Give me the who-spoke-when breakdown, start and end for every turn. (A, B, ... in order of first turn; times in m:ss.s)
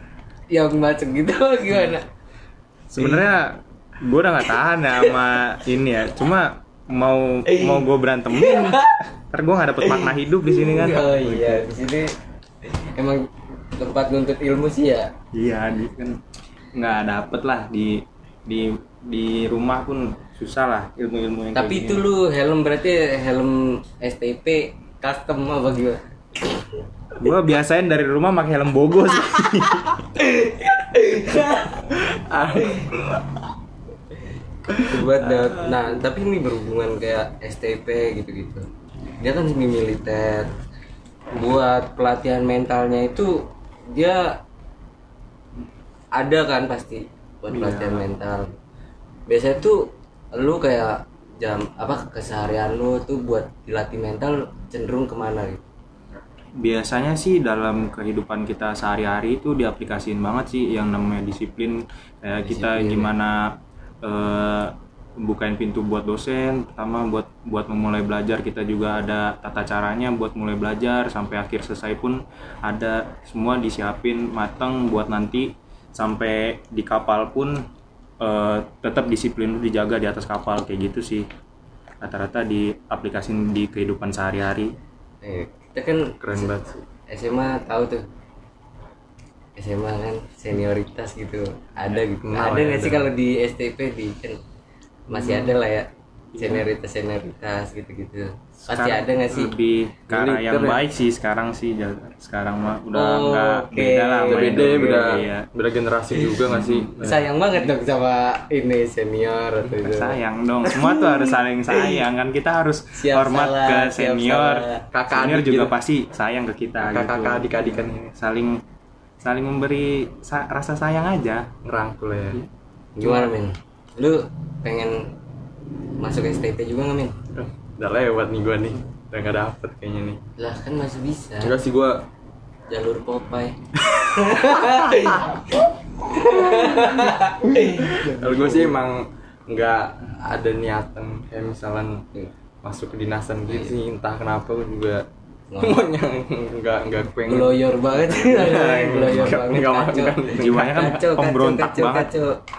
0:00.5-0:02.1 A
0:02.9-0:11.7 B
0:03.0-0:03.3 C
0:07.5-0:07.8 A
0:08.3-0:09.0 A
0:09.8-0:12.1 A
0:12.6-0:15.1 A
0:15.3-0:16.2 B
0:16.7-0:22.1 B
0:21.6-0:26.8 A
0:27.2-0:30.0 B
0:30.1-0:31.8 A
0:31.8-0:33.4 C
0:34.7-0:35.8 C
0:34.8-0:38.7 A
0:39.2-0:40.5 A
0:41.3-0:44.4 A
0:46.1-0:48.5 A
0:47.5-0:48.1 B
0:49.3-0:55.6 A
0:56.6-1:17.6 B
1:02.5-1:03.1 A
1:18.2-1:21.3 B
1:22.0-1:24.7 B
1:25.2-1:26.5 A
1:26.2-1:26.8 C
1:27.1-1:28.0 A
1:29.6-1:34.4 A
1:32.2-1:33.1 C
1:35.1-1:39.5 A
1:35.1-1:35.5 B
1:36.3-1:36.7 B
1:38.6-1:45.5 B
1:40.1-1:40.8 C
1:42.9-1:45.2 A
1:44.3-1:47.2 C
1:46.1-1:52.0 A
1:46.5-1:47.2 B
1:49.8-1:58.6 B
1:53.0-1:54.9 A
1:54.9-1:55.7 C
1:56.8-1:58.0 C
1:59.2-2:01.5 B
2:01.6-2:02.4 C
2:03.0-2:05.1 A
2:03.0-2:03.3 C
2:06.0-2:07.2 A
2:07.3-2:10.2 C
2:10.4-2:11.6 A
2:11.4-2:12.0 C
2:12.7-2:18.1 A
2:13.9-2:15.2 C
2:17.6-2:22.0 C
2:17.9-2:18.8 B
2:22.6-2:25.0 C
2:23.5-2:23.8 A
2:25.5-2:25.8 A
2:25.6-2:31.0 C
2:27.3-2:32.4 A
2:30.3-2:32.1 B